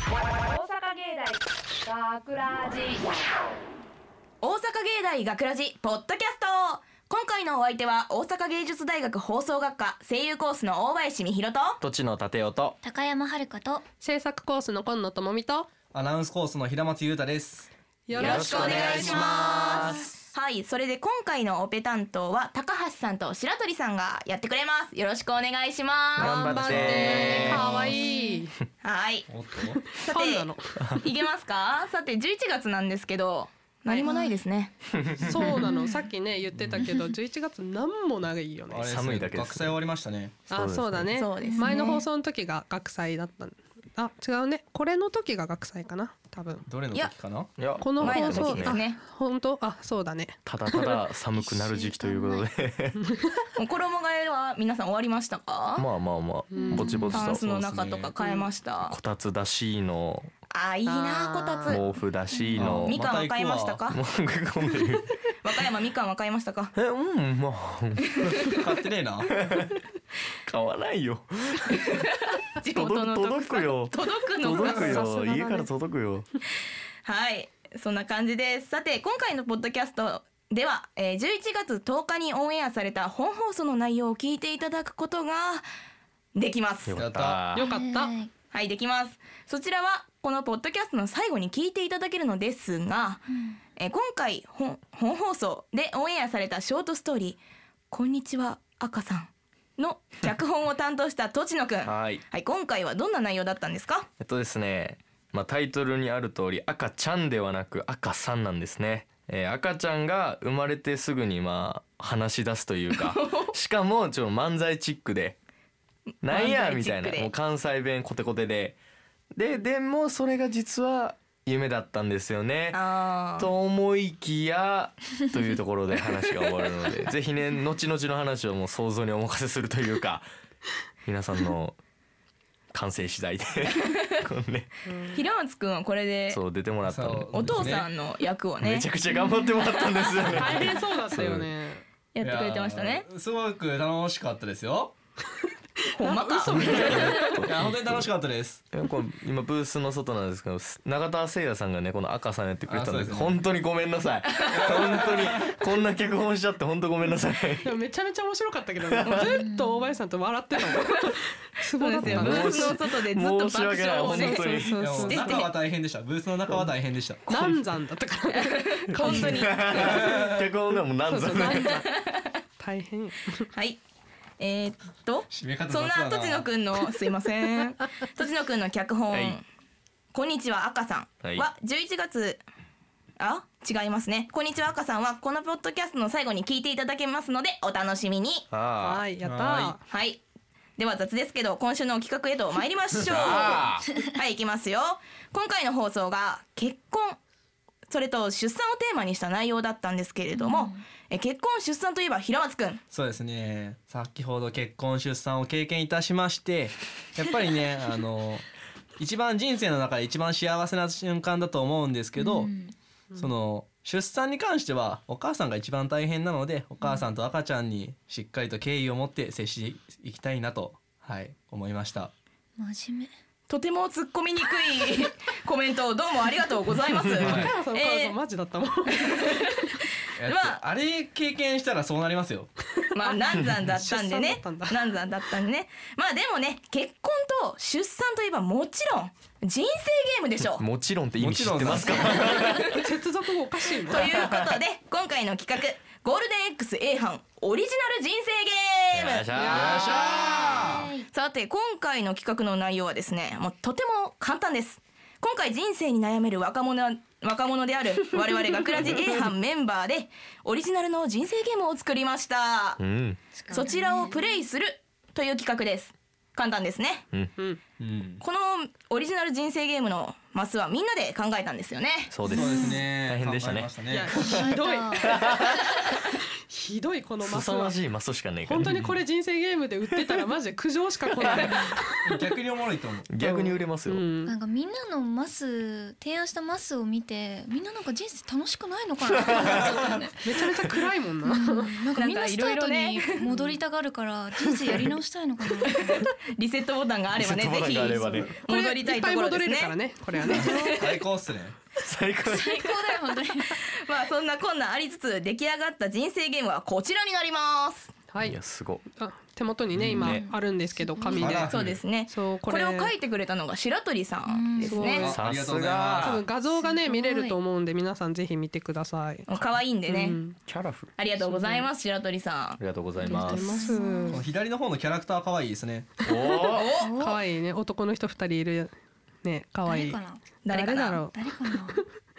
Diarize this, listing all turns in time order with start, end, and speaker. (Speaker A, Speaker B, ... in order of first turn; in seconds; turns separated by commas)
Speaker A: 0.4-3.1, Speaker B: 4.4-11.8, Speaker C: 11.8-12.8, Speaker D: 12.8-13.8, Speaker E: 14.0-15.7, Speaker F: 15.9-17.7, Speaker E: 18.1-20.0, Speaker B: 18.1-27.6, Speaker C: 18.2-20.1, Speaker C: 26.1-27.9, Speaker E: 26.2-28.6, Speaker F: 26.6-27.4, Speaker D: 27.4-28.4, Speaker B: 28.8-29.3, Speaker F: 29.3-29.8, Speaker E: 29.9-31.0, Speaker B: 29.9-34.7, Speaker D: 34.0-34.4, Speaker C: 34.9-35.5, Speaker E: 35.2-39.0, Speaker D: 35.5-36.0, Speaker D: 36.8-37.0, Speaker F: 38.7-40.5, Speaker C: 38.8-39.8, Speaker C: 40.5-41.1, Speaker E: 40.5-46.7, Speaker B: 41.1-42.0, Speaker D: 41.4-42.0, Speaker F: 46.7-47.6, Speaker C: 47.6-48.8, Speaker E: 47.8-50.8, Speaker B: 48.0-49.0, Speaker C: 50.5-53.0, Speaker D: 51.3-52.5, Speaker E: 53.1-53.4, Speaker B: 53.6-55.8, Speaker C: 55.8-58.0, Speaker E: 56.5-57.1, Speaker D: 56.5-57.2, Speaker B: 57.1-59.0, Speaker F: 57.7-58.1, Speaker E: 58.2-58.5, Speaker C: 58.9-60.3, Speaker B: 60.5-61.8, Speaker E: 60.9-61.8, Speaker C: 61.7-63.0, Speaker F: 62.5-63.8, Speaker B: 62.8-64.0, Speaker C: 63.9-65.1, Speaker B: 65.4-66.7, Speaker C: 66.7-68.3, Speaker B: 68.2-68.5, Speaker F: 68.4-69.6, Speaker C: 69.2-69.8, Speaker C: 70.5-72.0, Speaker B: 71.9-75.1, Speaker C: 72.7-76.3, Speaker E: 74.5-75.7, Speaker B: 77.0-85.7, Speaker B: 86.3-87.0, Speaker C: 86.8-87.7, Speaker F: 86.9-87.5, Speaker E: 87.5-88.1, Speaker D: 87.6-88.3, Speaker B: 88.5-93.2, Speaker D: 93.3-93.6, Speaker B: 93.8-97.4, Speaker B: 97.9-104.1, Speaker C: 101.8-102.2, Speaker C: 104.2-115.4, Speaker B: 112.9-113.5, Speaker C: 116.2-118.8, Speaker B: 116.2-117.3, Speaker C: 119.3-122.8, Speaker B: 122.7-123.5, Speaker C: 123.4-130.2, Speaker C: 131.0-131.8, Speaker C: 132.7-134.7, Speaker B: 133.8-134.2, Speaker E: 134.8-135.2, Speaker B: 135.1-136.4, Speaker C: 136.3-137.8, Speaker F: 136.9-137.9, Speaker B: 137.3-138.9, Speaker C: 138.6-141.5, Speaker D: 139.1-139.6, Speaker E: 140.3-141.8, Speaker B: 142.1-143.1, Speaker F: 142.2-144.9, Speaker B: 146.0-147.4, Speaker E: 146.0-147.4, Speaker C: 146.5-148.1, Speaker F: 147.4-148.6, Speaker C: 148.7-157.7, Speaker F: 152.7-153.4, Speaker B: 154.3-154.6, Speaker F: 154.5-155.5, Speaker E: 157.6-162.8, Speaker C: 158.8-159.2, Speaker B: 159.0-159.3, Speaker D: 159.4-159.9, Speaker B: 161.8-165.5, Speaker C: 162.0-165.2, Speaker E: 164.0-165.5, Speaker F: 164.8-167.3, Speaker E: 167.3-170.4, Speaker C: 167.3-167.6, Speaker B: 168.3-169.7, Speaker C: 169.0-171.8, Speaker F: 169.7-170.4, Speaker E: 171.1-171.9, Speaker B: 171.4-172.3, Speaker E: 172.6-173.5, Speaker B: 173.5-173.8, Speaker B: 174.4-179.4, Speaker F: 175.3-176.5, Speaker C: 179.1-179.4, Speaker B: 180.1-182.4, Speaker C: 181.2-181.5, Speaker B: 183.2-188.5, Speaker C: 188.5-189.0, Speaker E: 188.8-189.8, Speaker F: 189.2-189.8, Speaker B: 189.9-190.2, Speaker B: 190.8-197.2, Speaker C: 193.0-193.9, Speaker B: 197.9-202.8, Speaker D: 200.3-200.8, Speaker F: 202.9-208.4, Speaker F: 209.0-212.5, Speaker D: 212.2-212.7, Speaker F: 213.2-222.1, Speaker D: 222.6-223.1, Speaker B: 223.5-228.2, Speaker F: 227.2-227.5, Speaker E: 227.2-229.6, Speaker B: 229.0-229.7, Speaker F: 230.2-232.5, Speaker B: 230.2-230.6, Speaker B: 232.9-240.6, Speaker E: 233.0-234.8, Speaker C: 240.4-242.8, Speaker F: 241.2-242.4, Speaker B: 241.8-242.8, Speaker E: 242.6-244.1, Speaker B: 243.9-250.5, Speaker C: 243.9-244.6, Speaker C: 248.9-250.4, Speaker F: 249.3-250.9, Speaker E: 249.4-250.5, Speaker D: 250.5-251.1, Speaker B: 251.1-262.8, Speaker C: 262.8-263.2, Speaker D: 263.4-264.4, Speaker B: 263.5-267.1, Speaker F: 267.8-268.2, Speaker B: 268.2-272.1, Speaker C: 272.1-273.7, Speaker D: 272.3-272.8, Speaker F: 272.3-274.2, Speaker E: 273.9-277.8, Speaker D: 274.2-275.1, Speaker C: 275.0-275.7, Speaker C: 277.2-278.9, Speaker E: 278.4-282.3, Speaker F: 278.6-278.9, Speaker C: 281.2-281.5, Speaker D: 281.4-281.7, Speaker F: 282.0-283.1, Speaker C: 283.1-284.0, Speaker E: 283.2-284.3, Speaker D: 284.2-290.1, Speaker C: 289.2-289.8, Speaker B: 289.8-290.1, Speaker E: 290.2-291.7, Speaker D: 291.2-296.1, Speaker B: 291.9-293.2, Speaker E: 293.3-293.6, Speaker B: 295.8-301.0, Speaker C: 297.2-298.3, Speaker E: 298.1-300.7, Speaker D: 300.2-300.9, Speaker F: 300.7-301.6, Speaker C: 301.8-302.6, Speaker D: 302.2-303.6, Speaker B: 302.6-307.9, Speaker E: 308.1-308.4, Speaker C: 308.2-308.8, Speaker E: 308.9-311.6, Speaker F: 309.7-310.1, Speaker C: 309.8-310.2, Speaker D: 310.0-311.5, Speaker F: 311.2-311.8, Speaker B: 311.5-315.2, Speaker E: 312.1-312.9, Speaker D: 314.3-315.1, Speaker E: 314.7-315.1, Speaker F: 314.9-316.2, Speaker C: 315.1-316.2, Speaker E: 316.0-319.3, Speaker D: 316.5-317.4, Speaker B: 319.3-320.2, Speaker E: 319.9-320.4, Speaker C: 320.4-320.9, Speaker B: 321.0-322.6, Speaker E: 321.2-321.7, Speaker C: 322.6-323.7, Speaker D: 323.0-324.2, Speaker E: 323.0-324.3, Speaker F: 324.1-325.9, Speaker C: 326.0-326.7, Speaker E: 326.0-328.7, Speaker B: 326.5-326.9, Speaker D: 326.8-327.2, Speaker E: 329.2-331.9, Speaker D: 329.6-330.2, Speaker B: 330.4-331.0, Speaker D: 331.1-331.8